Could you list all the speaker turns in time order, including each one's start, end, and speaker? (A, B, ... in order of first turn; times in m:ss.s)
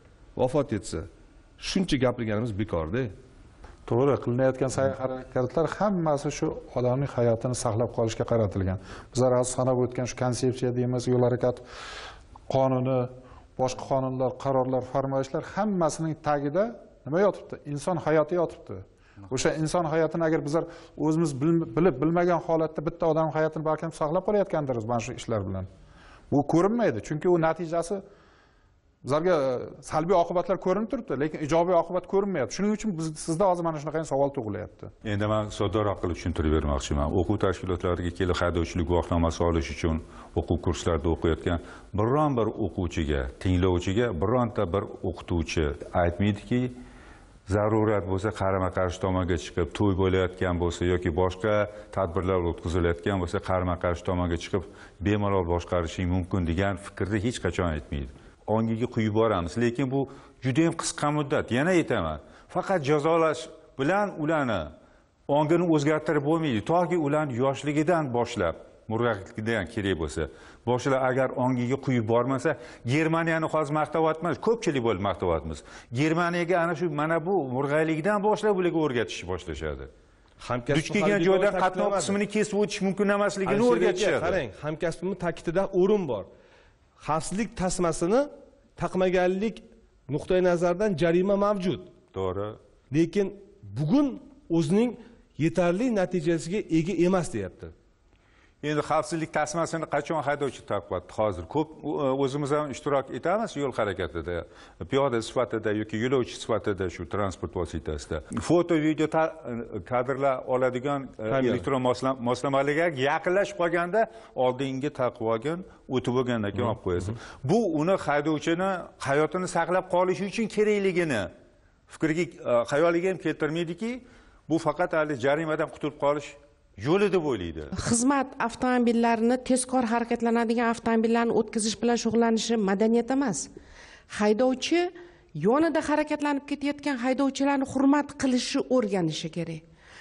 0:00.4-0:01.1 A
0:01.6-0:03.1 A
0:03.9-0:11.6 B
0:12.5-0:25.7 B
0:26.3-0:28.0 B
0:29.0-0:34.9 B
0:35.0-0:46.7 C
0:47.5-1:04.7 C
1:05.3-1:19.9 C
1:20.4-1:22.2 A
1:20.7-1:24.4 C
1:23.4-1:26.3 A
1:27.0-1:31.9 A
1:32.1-1:32.6 C
1:32.9-1:37.7 A
1:38.6-2:01.3 C
1:51.3-1:51.6 A
2:01.9-2:07.7 C
2:07.7-2:13.5 D
2:14.1-2:19.6 D